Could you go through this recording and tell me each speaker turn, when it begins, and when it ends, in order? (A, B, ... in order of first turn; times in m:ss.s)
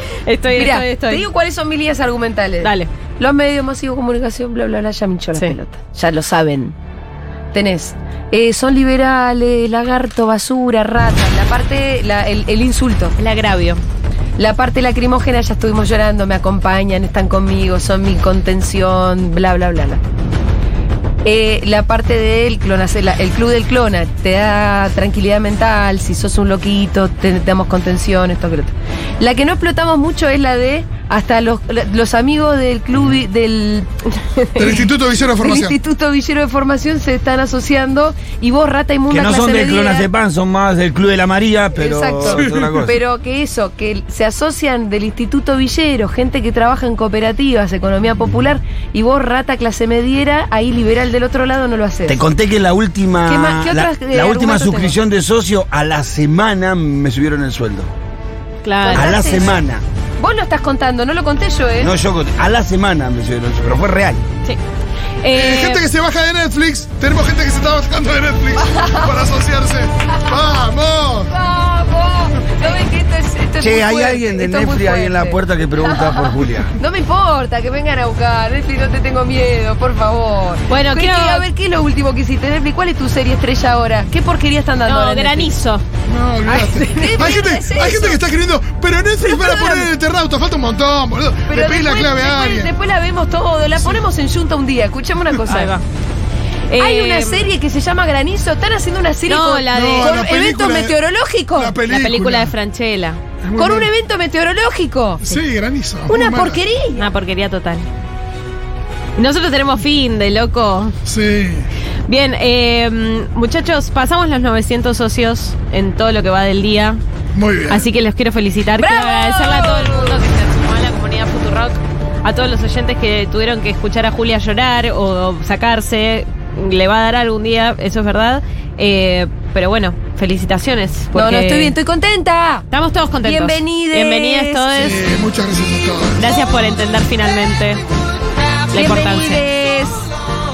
0:00.2-0:01.2 A
0:00.5-0:06.8 B
0:02.6-0:02.9 A
0:07.5-0:13.2 B
0:13.2-0:13.8 A
0:14.4-0:20.0 B
0:21.2-0:34.9 B
0:34.6-0:35.8 C
0:35.4-0:40.1 B
0:39.1-0:43.0 D
0:41.8-0:52.2 B
0:42.2-0:42.7 C
0:52.1-0:57.9 D
0:53.3-0:55.0 B
0:58.6-0:59.1 A
0:58.8-0:59.6 B
0:58.9-0:59.8 D
1:00.2-1:01.9 B
1:01.8-1:04.2 D
1:05.2-1:05.8 A
1:05.3-1:11.3 C
1:08.6-1:09.1 B
1:11.3-1:25.5 B
1:13.6-1:16.7 D
1:20.7-1:21.4 A
1:24.8-1:25.8 A
1:26.1-1:32.7 C
1:26.4-1:28.2 B
1:29.2-1:29.9 B
1:31.5-1:35.7 B
1:35.5-1:35.8 A
1:36.7-1:37.5 A
1:36.8-1:41.8 B
1:39.3-1:40.2 A
1:39.7-1:41.0 C
1:41.5-1:42.5 C
1:41.8-1:43.2 A
1:43.4-1:43.9 C
1:43.6-1:45.4 B
1:45.2-1:46.6 C
1:46.1-1:47.0 B
1:47.0-1:47.9 A
1:49.2-1:50.9 A
1:51.0-1:51.7 C
1:52.1-1:57.0 A
1:57.3-1:57.8 C
1:57.7-2:11.7 A
1:58.8-2:00.2 B
2:11.1-2:12.6 B
2:12.7-2:15.0 A
2:13.2-2:14.6 B
2:14.7-2:16.2 C
2:16.2-2:17.8 A
2:18.7-2:19.4 A
2:18.7-2:20.0 B